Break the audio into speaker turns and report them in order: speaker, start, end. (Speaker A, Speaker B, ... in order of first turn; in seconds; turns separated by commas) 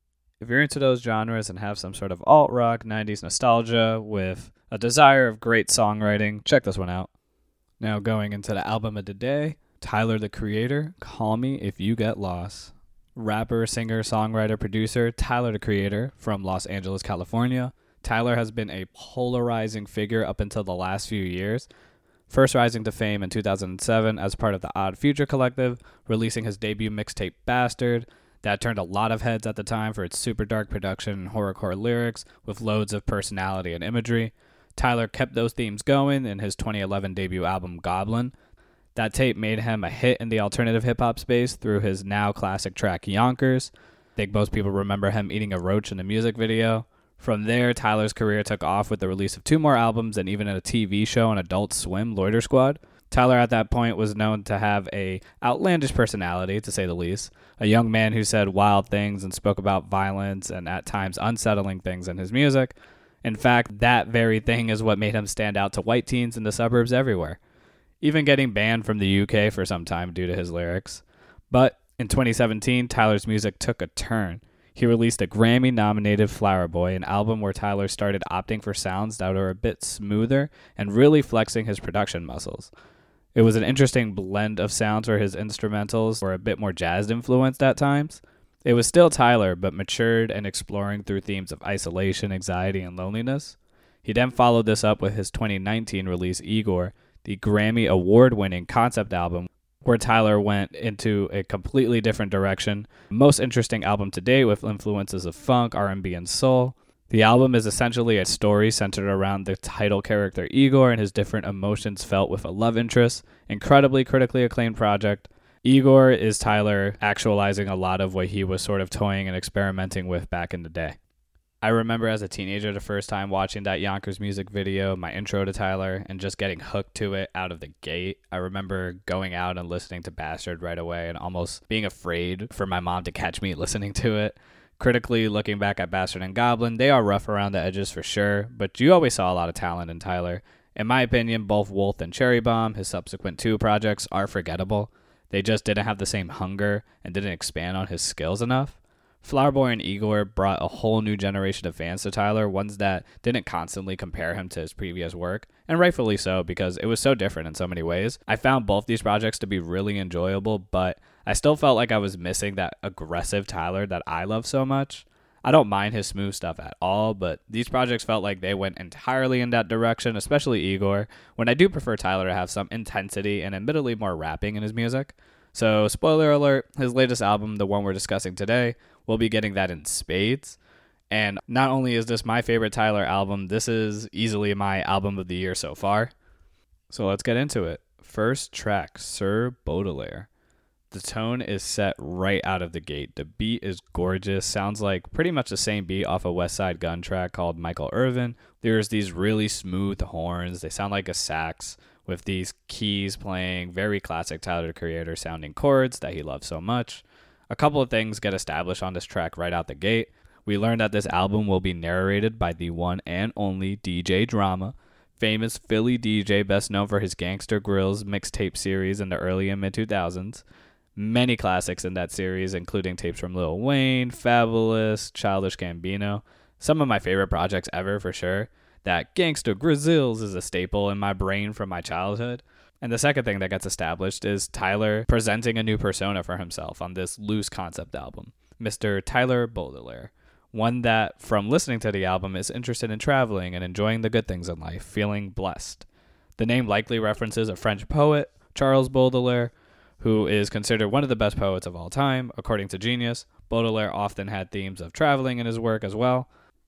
Speaker A: 0.4-7.1, Speaker A: 7.8-21.7, Speaker A: 22.3-38.3, Speaker A: 38.9-67.4, Speaker A: 68.0-82.7, Speaker A: 83.3-121.0, Speaker A: 121.6-180.6, Speaker A: 181.1-186.1, Speaker A: 186.9-190.3, Speaker A: 190.9-220.4, Speaker A: 220.9-245.8, Speaker A: 246.4-256.3